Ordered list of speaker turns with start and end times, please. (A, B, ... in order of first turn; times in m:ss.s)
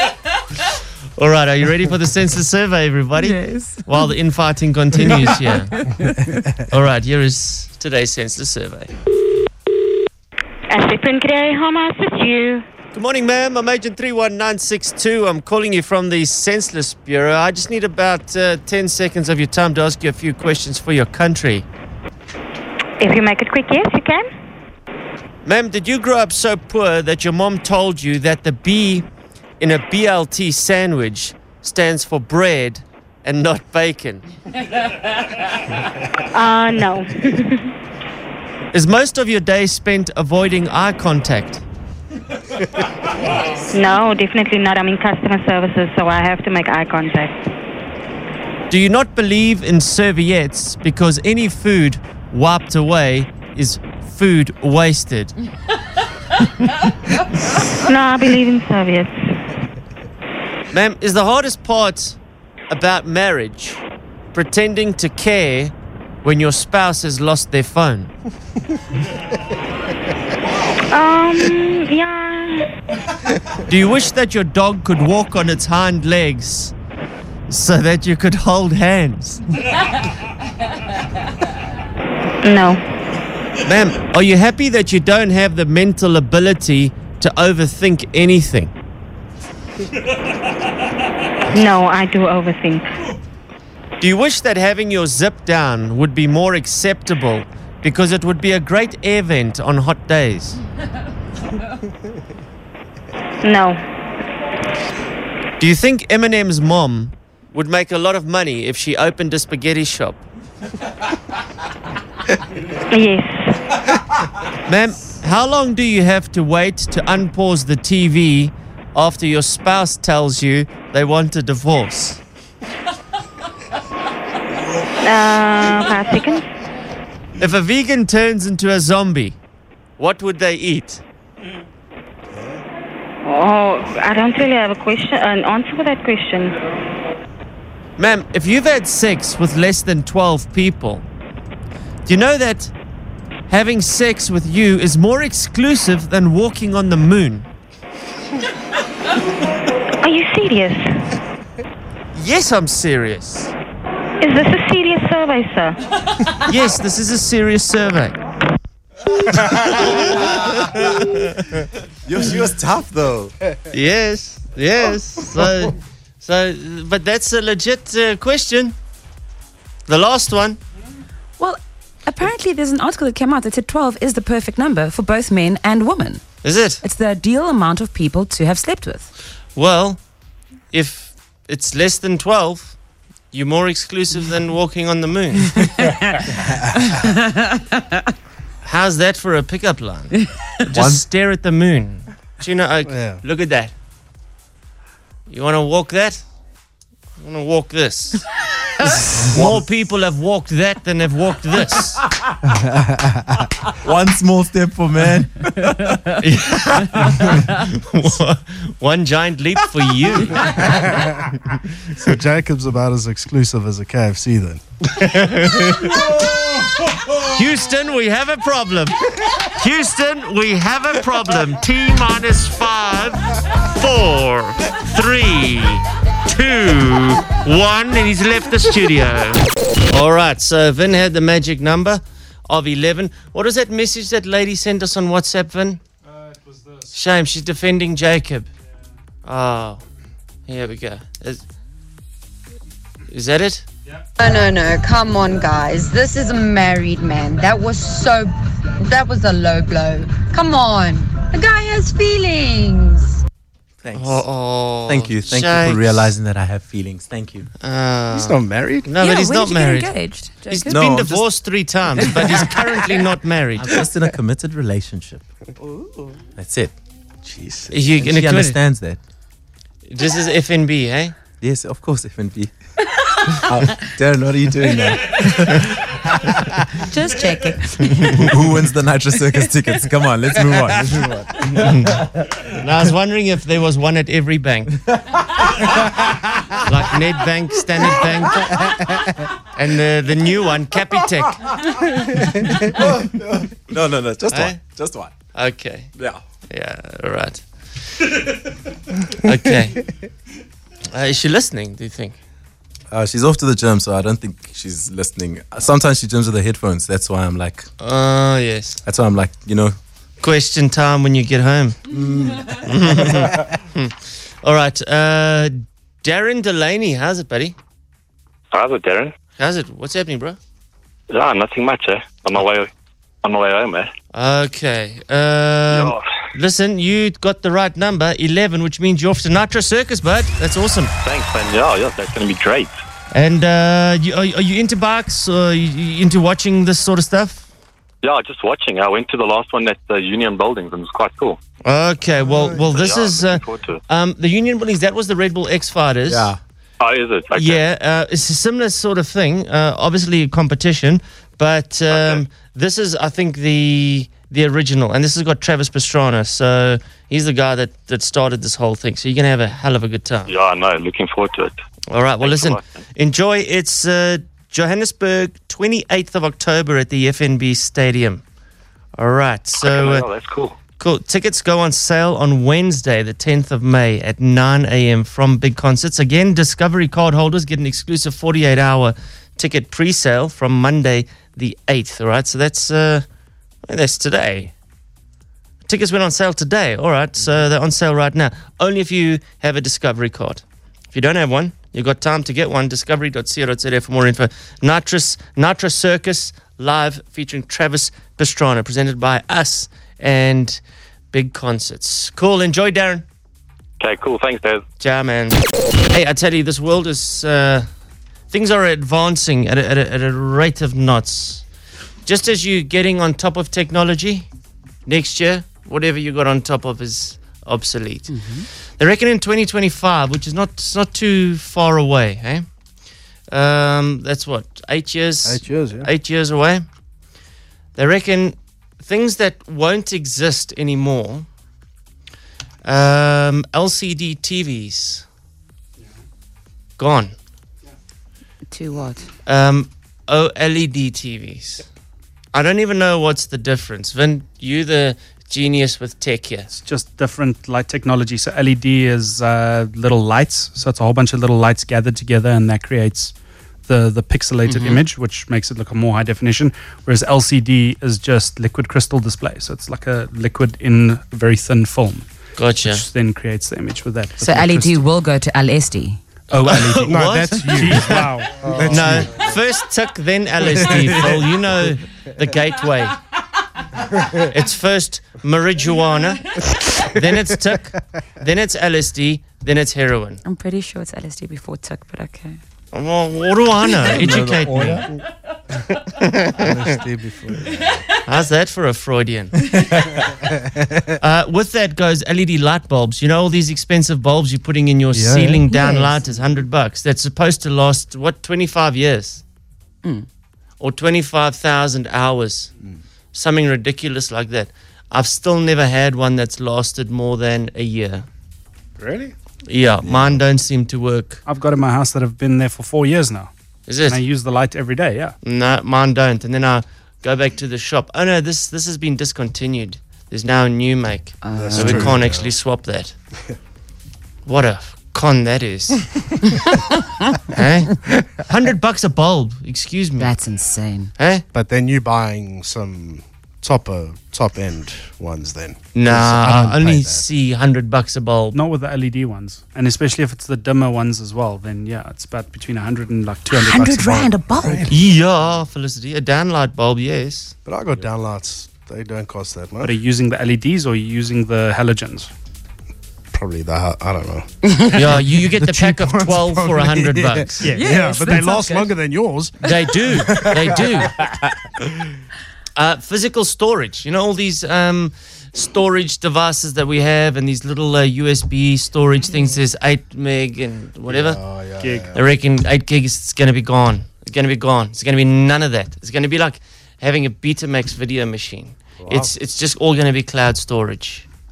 0:01.2-0:05.7 A
0:03.2-0:04.0 B
0:05.3-0:06.4 B
0:06.7-0:08.9 A
0:10.7-0:12.6 C
0:12.9-0:21.6 A
0:23.0-0:24.3 C
0:25.4-0:29.0 A
0:29.6-0:34.2 A
0:36.3-0:37.7 C
0:38.7-0:41.6 A
0:43.7-0:47.4 C
0:48.7-0:55.3 A
0:57.8-0:59.2 C
1:00.7-1:02.2 A
1:02.7-1:08.1 A
1:10.9-1:12.7 C
1:13.7-1:16.7 A
1:17.5-1:19.4 A
1:22.4-1:22.8 C
1:23.6-1:28.7 A
1:31.5-1:32.9 C
1:34.0-1:40.6 A
1:43.4-1:43.8 C
1:45.6-1:50.2 A
1:52.9-1:53.6 C
1:54.7-2:02.2 A
2:05.0-2:06.4 C
2:07.4-2:09.4 A
2:10.0-2:11.0 A
2:12.3-2:12.6 D
2:13.2-2:16.6 C
2:18.0-2:21.1 A
2:22.1-2:22.7 A
2:23.5-2:27.5 A
2:30.0-2:31.0 C
2:32.1-2:33.5 A
2:34.2-2:35.8 C
2:36.4-2:38.2 A
2:39.3-2:41.4 A
2:42.0-2:43.4 E
2:43.7-2:48.8 A
2:49.9-2:50.6 A
2:51.4-2:56.2 B
2:56.4-2:56.8 A
2:56.8-2:59.1 B
2:59.6-3:00.0 A
3:00.7-3:02.8 A
3:03.3-3:05.7 A
3:05.6-3:06.3 B
3:06.8-3:08.0 B
3:08.6-3:13.7 A
3:10.7-3:11.0 E
3:12.9-3:13.2 D
3:15.3-3:16.2 A
3:17.2-3:18.2 A
3:18.8-3:22.0 A
3:22.7-3:23.4 D
3:23.8-3:26.2 E
3:26.2-3:30.9 A
3:30.4-3:31.4 D
3:32.0-3:36.0 D
3:35.1-3:35.8 A
3:37.2-3:55.8 A
3:56.3-3:56.9 F
3:56.9-3:58.5 A
3:59.2-3:59.8 A
4:00.5-4:01.4 A
4:03.1-4:03.6 A
4:04.2-4:13.2 G
4:13.8-4:14.2 E
4:14.0-4:16.1 A
4:14.9-4:17.5 E
4:17.6-4:20.0 A
4:18.1-4:18.9 D
4:19.0-4:20.9 B
4:20.5-4:23.8 A
4:20.7-4:21.3 E
4:23.6-4:25.2 E
4:26.4-4:26.7 E
4:27.2-4:27.7 D
4:27.7-4:28.6 A
4:28.0-4:29.0 E
4:29.9-4:31.2 A
4:31.4-4:32.5 E
4:33.4-4:36.5 E
4:36.8-4:38.2 B
4:38.0-4:42.1 E
4:41.6-4:41.9 A
4:42.5-4:44.8 A
4:45.5-4:46.6 E
4:46.7-4:48.7 A
4:49.5-4:51.6 A
4:52.6-4:55.1 E
4:54.3-4:54.6 A
4:55.4-4:55.9 A
4:56.5-4:57.4 A
4:59.2-4:59.8 A
5:00.9-5:02.2 A
5:02.9-5:07.7 E
5:07.8-5:08.8 A
5:08.8-5:09.8 E
5:10.2-5:12.0 A
5:11.9-5:13.3 E
5:12.5-5:17.6 A
5:18.5-5:19.1 H
5:19.4-5:20.4 A
5:21.1-5:22.7 H
5:23.2-5:23.9 H
5:24.1-5:30.9 A
5:25.7-5:26.0 H
5:31.0-5:32.8 H
5:33.1-5:37.4 A
5:38.0-5:41.4 H
5:41.6-5:46.3 A
5:42.3-5:42.6 D
5:42.6-5:43.8 H
5:46.1-5:46.4 E
5:46.8-5:47.6 H
5:47.3-6:00.3 A
5:51.9-5:52.2 H
6:00.3-6:01.6 H
6:01.9-6:08.2 A
6:02.2-6:02.6 H
6:09.0-6:10.1 A
6:09.6-6:10.6 H
6:10.8-6:23.0 A
6:23.7-6:24.5 A
6:25.7-6:40.6 A
6:41.1-6:43.0 A
6:43.8-6:44.6 H
6:44.8-6:47.7 A
6:48.3-6:51.4 A
6:52.1-6:54.3 A
6:54.9-6:58.2 A
6:58.1-6:58.5 B
6:58.8-7:02.4 A
7:03.3-7:06.6 A
7:05.2-7:05.9 D
7:07.8-7:11.3 A
7:12.6-7:15.0 A
7:16.8-7:17.1 A
7:18.5-7:19.1 B
7:19.3-7:21.7 A
7:22.3-7:26.5 A
7:26.6-7:33.1 F
7:33.7-7:42.1 F
7:34.5-7:34.8 B
7:42.4-7:42.8 A
7:42.6-7:44.8 F
7:44.2-7:46.0 B
7:46.3-7:49.0 F
7:46.4-7:48.0 A
7:46.8-7:49.4 D
7:48.7-7:53.0 A
7:50.7-7:51.1 E
7:50.8-7:51.0 D
7:54.2-8:00.2 A
8:00.2-8:02.4 B
8:02.7-8:04.9 A
8:03.8-8:04.9 E
8:06.2-8:06.6 A
8:06.4-8:07.8 D
8:07.9-8:09.5 A
8:10.4-8:10.9 D
8:11.0-8:19.2 A
8:14.9-8:15.4 D
8:15.5-8:16.2 B
8:20.6-8:22.5 A
8:23.1-8:28.1 A
8:28.8-8:29.1 D
8:29.5-8:31.2 A
8:29.8-8:30.2 D
8:31.3-8:33.3 F
8:33.7-8:34.0 A
8:33.9-8:35.2 F
8:35.2-8:42.9 A
8:41.2-8:42.0 B
8:41.3-8:42.3 D
8:44.3-8:45.9 A
8:47.3-8:50.1 A
8:50.0-8:50.9 B
8:51.0-8:51.2 A
8:51.3-8:57.0 D
8:55.8-8:58.4 A
8:58.3-9:04.1 F
9:03.4-9:04.7 B
9:03.8-9:04.7 D
9:04.7-9:07.3 A
9:07.5-9:09.7 D
9:09.6-9:12.1 F
9:13.1-9:20.8 D
9:14.7-9:17.5 A
9:17.5-9:18.7 B
9:19.4-9:21.0 A
9:22.6-9:31.2 A
9:30.9-9:32.0 D
9:31.6-9:31.9 F
9:31.9-9:41.0 A
9:38.8-9:39.1 D